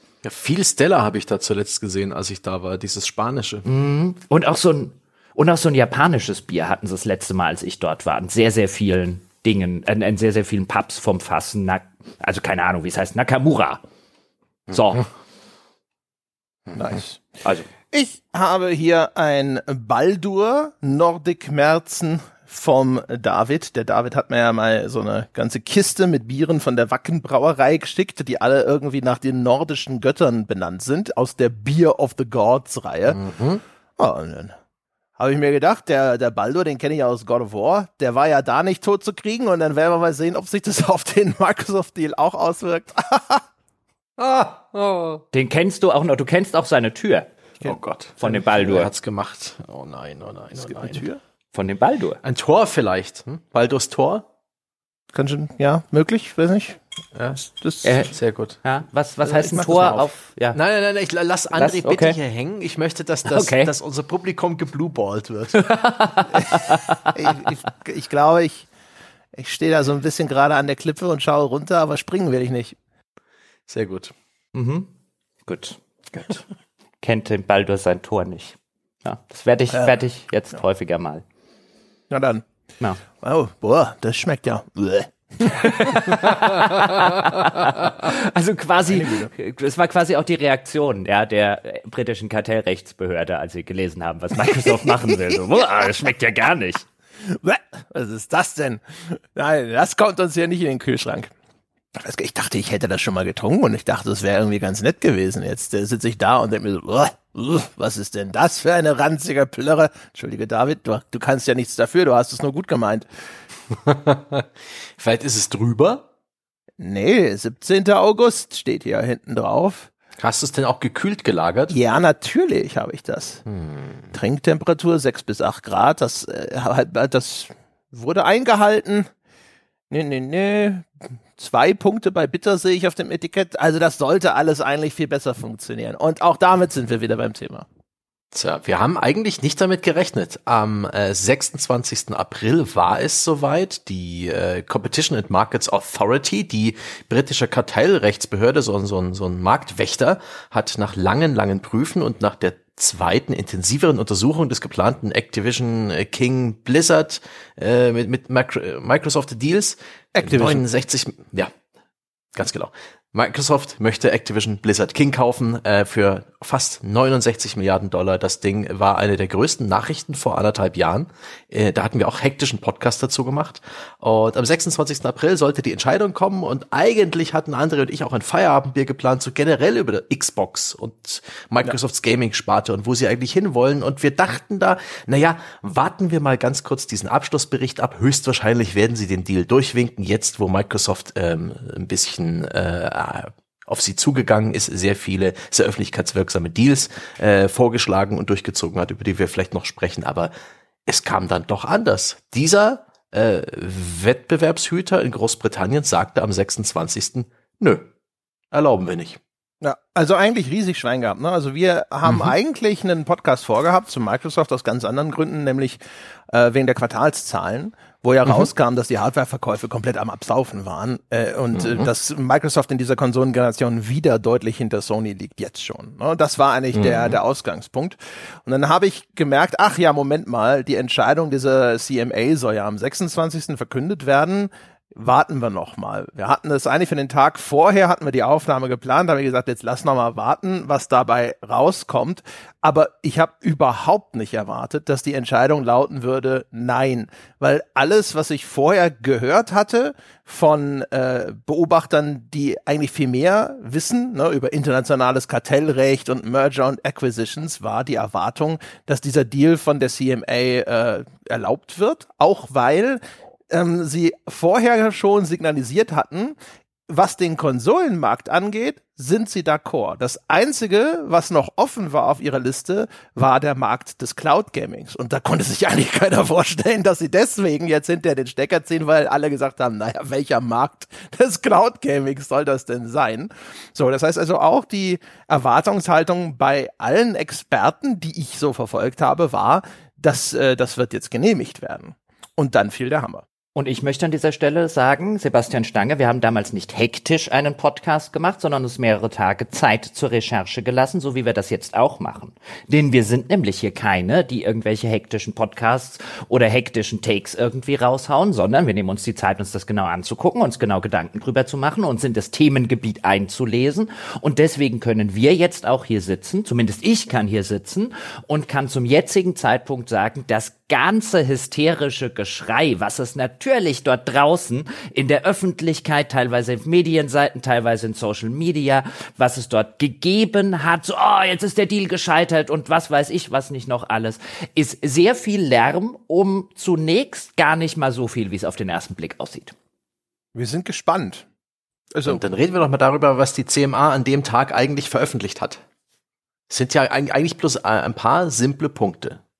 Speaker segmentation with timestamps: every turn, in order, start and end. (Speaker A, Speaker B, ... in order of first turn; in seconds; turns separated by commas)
Speaker A: 0.2-3.6, Speaker B: 3.6-13.8, Speaker B: 14.7-15.1, Speaker C: 16.7-17.2, Speaker C: 17.9-33.2, Speaker A: 33.1-33.6, Speaker C: 34.0-34.5, Speaker C: 35.2-43.4, Speaker A: 44.2-45.2, Speaker B: 45.3-47.3, Speaker A: 47.6-51.0, Speaker B: 48.2-48.9, Speaker C: 50.6-51.2, Speaker B: 51.5-52.2, Speaker A: 52.2-54.2, Speaker C: 55.1-56.8, Speaker A: 57.1-57.4, Speaker C: 57.4-58.0, Speaker B: 57.8-58.1, Speaker A: 58.0-58.6, Speaker B: 58.6-60.6, Speaker C: 59.3-60.0, Speaker A: 59.5-66.2, Speaker B: 61.5-62.2, Speaker B: 63.3-63.7, Speaker B: 65.6-67.1, Speaker C: 67.1-68.7, Speaker C: 69.3-72.8, Speaker A: 73.7-74.1, Speaker B: 74.5-74.9, Speaker B: 75.5-76.4, Speaker B: 77.0-81.2, Speaker C: 82.1-82.4, Speaker C: 83.2-86.3, Speaker B: 85.5-96.8, Speaker C: 88.9-89.3, Speaker C: 97.3-101.3, Speaker C: 102.0-113.1, Speaker A: 113.7-116.0, Speaker C: 116.8-119.9, Speaker A: 120.2-121.7, Speaker C: 121.7-123.4, Speaker A: 123.5-124.0, Speaker C: 124.1-129.1, Speaker C: 129.9-137.6, Speaker A: 138.3-161.5, Speaker C: 160.1-160.6, Speaker A: 162.3-200.3, Speaker A: 200.9-207.9, Speaker A: 208.5-209.2, Speaker C: 209.6-215.8, Speaker C: 216.3-266.3, Speaker A: 221.5-221.9, Speaker A: 226.7-227.2, Speaker C: 266.9-293.2, Speaker B: 293.5-339.5, Speaker C: 340.3-341.2, Speaker C: 341.9-342.2, Speaker A: 342.1-345.6, Speaker A: 346.5-349.2